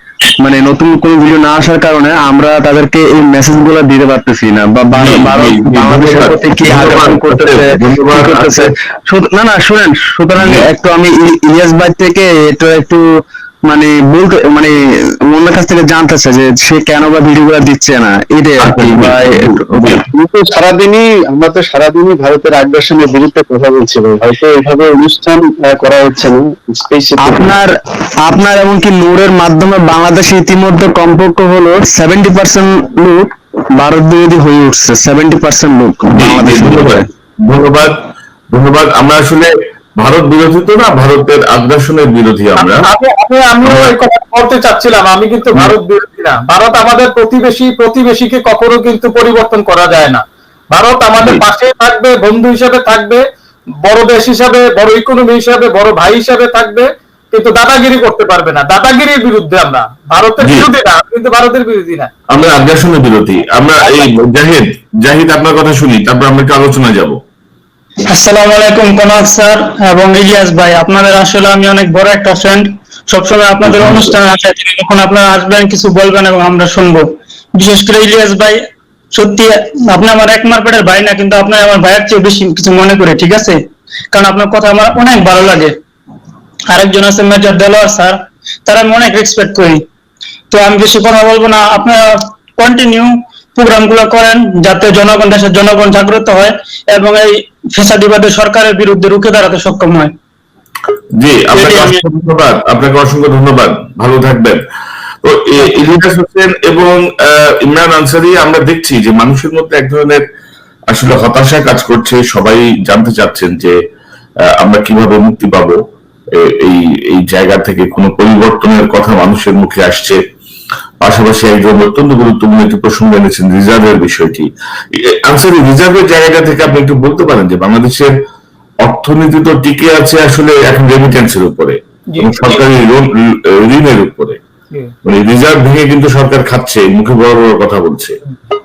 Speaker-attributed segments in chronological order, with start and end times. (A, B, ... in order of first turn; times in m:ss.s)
0:00.4-0:13.0 A
0:04.9-0:08.7 B
0:10.4-0:10.7 B
0:13.7-0:14.7 A
0:15.3-0:20.0 A
0:18.6-0:20.0 B
0:20.2-0:27.5 C
0:27.2-0:37.1 A
0:36.1-0:37.9 B
0:38.5-0:42.8 B
0:42.6-0:53.2 D
0:43.6-0:43.9 B
0:53.8-1:02.1 D
1:02.3-1:07.2 B
1:03.8-1:04.1 D
1:08.1-1:18.6 E
1:13.6-1:14.2 B
1:19.1-1:23.6 E
1:24.1-1:25.7 E
1:26.7-1:29.8 E
1:30.5-1:32.0 E
1:32.6-1:40.1 E
1:41.2-1:44.6 B
1:41.5-1:42.0 E
1:45.2-1:50.2 B
1:45.6-1:45.9 E
1:50.9-1:53.7 B
1:54.6-1:55.8 B
1:56.6-2:00.2 B
2:01.0-2:04.5 B
2:05.2-2:08.1 B
2:08.8-2:13.1 B
2:12.1-2:12.6 D
2:13.6-2:14.4 B
2:15.0-2:18.2 B